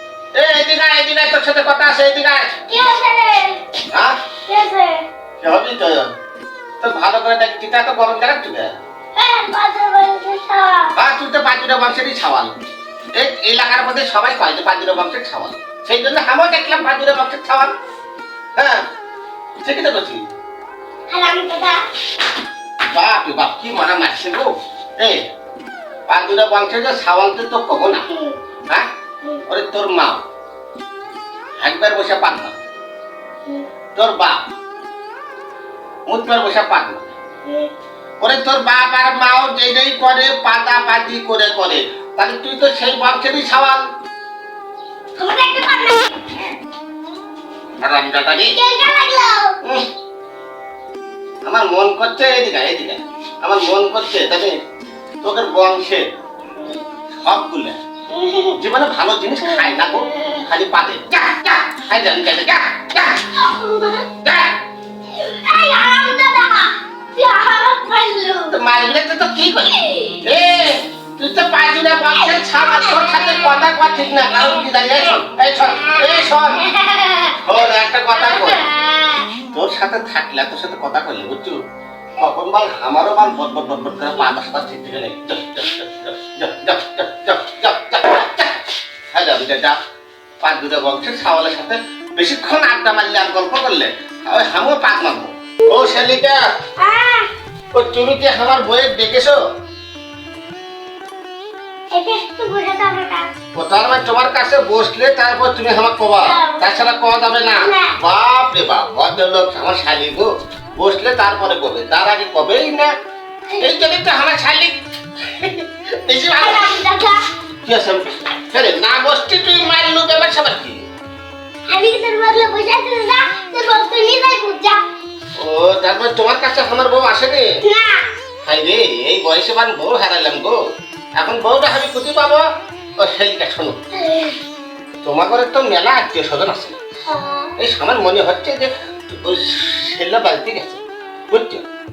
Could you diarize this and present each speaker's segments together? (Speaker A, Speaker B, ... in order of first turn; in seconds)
Speaker A: 0.3-2.6, 5.4-6.1, 6.8-8.8, 10.9-12.5, 13.1-17.7, 18.6-18.8, 19.6-20.2, 22.9-25.2, 26.1-28.0, 29.5-30.2, 31.6-32.6, 33.9-34.4, 36.1-37.1, 38.2-43.8, 47.8-48.5, 51.4-54.6, 55.2-56.0, 57.2-57.8, 58.5-63.2, 64.2-64.6, 68.5-76.7, 77.4-78.7, 79.5-81.6, 82.2-88.6, 89.1-89.8, 90.4-96.4, 97.7-99.4, 103.5-112.9, 113.6-116.7, 117.6-120.8, 125.3-127.5, 128.4-130.6, 131.2-132.4, 133.0-133.8, 135.0-136.7, 137.6-141.6
Speaker B: 2.7-3.6, 4.5-5.0, 9.1-10.9, 21.1-21.8, 28.0-28.3, 37.4-37.7, 45.2-46.0, 48.5-49.6, 58.1-58.6, 59.5-59.7, 63.3-64.1, 65.1-68.5, 69.7-70.2, 72.1-73.6, 75.8-77.5, 78.1-79.3, 96.8-97.3, 101.9-103.3, 106.2-106.7, 107.5-108.0, 113.5-113.9, 116.4-117.2, 121.7-124.8, 127.6-128.1, 133.9-134.4, 137.0-137.5